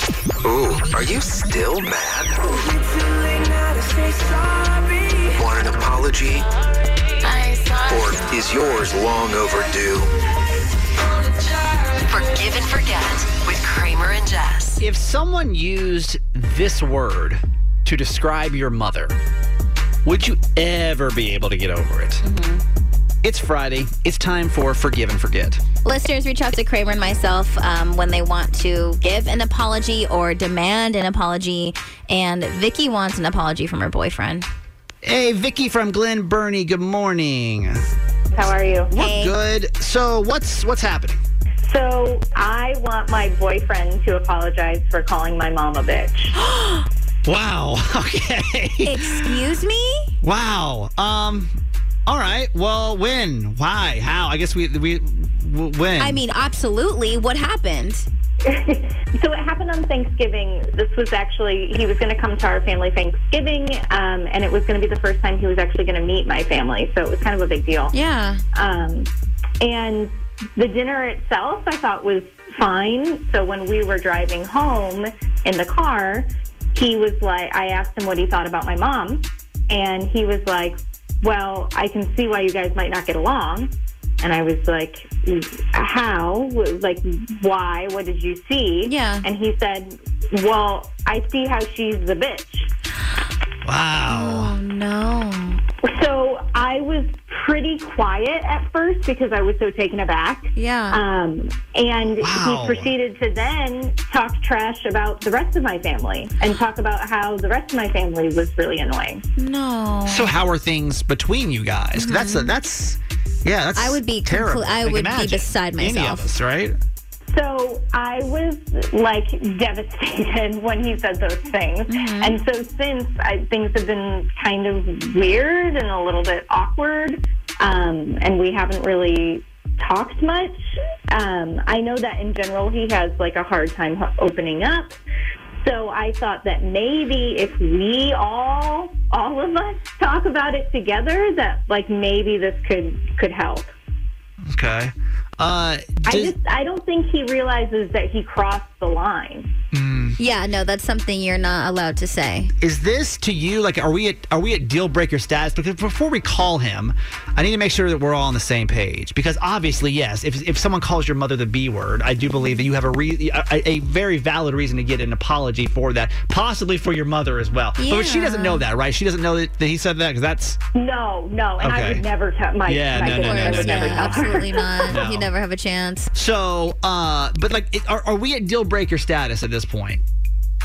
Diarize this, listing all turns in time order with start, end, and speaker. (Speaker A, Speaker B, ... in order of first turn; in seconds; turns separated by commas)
Speaker A: 0.4-2.4, Speaker A: 5.2-6.4, Speaker B: 7.3-7.8, Speaker A: 7.8-10.1, Speaker B: 11.5-14.8, Speaker C: 14.8-19.2, Speaker C: 20.0-22.2, Speaker D: 22.2-22.6, Speaker C: 23.2-25.6, Speaker D: 25.8-34.5, Speaker C: 35.0-37.9, Speaker E: 38.3-38.9, Speaker C: 38.9-41.2, Speaker D: 38.9-39.3, Speaker E: 41.6-46.3, Speaker D: 46.3-46.9, Speaker C: 47.2-49.3, Speaker D: 48.8-50.1, Speaker C: 50.2-51.5, Speaker C: 52.1-56.2, Speaker D: 56.0-58.0, Speaker E: 58.4-67.9, Speaker D: 67.9-68.4, Speaker E: 68.5-69.1, Speaker E: 69.6-92.7, Speaker D: 88.8-89.2, Speaker C: 93.6-94.6, Speaker D: 94.1-95.6, Speaker E: 95.8-109.2, Speaker D: 100.5-101.0, Speaker C: 102.2-102.9, Speaker D: 109.4-110.3, Speaker C: 110.1-116.8, Speaker D: 112.0-112.5, Speaker D: 113.8-116.3, Speaker E: 117.3-134.9, Speaker D: 121.9-122.4, Speaker E: 135.6-143.7, Speaker C: 144.4-146.3, Speaker E: 146.1-149.5, Speaker C: 149.7-150.2, Speaker D: 150.2-152.5, Speaker C: 152.6-170.6, Speaker D: 167.8-168.6, Speaker E: 170.7-174.9, Speaker C: 171.6-172.0, Speaker C: 172.7-175.3, Speaker D: 173.2-176.1, Speaker C: 176.1-180.0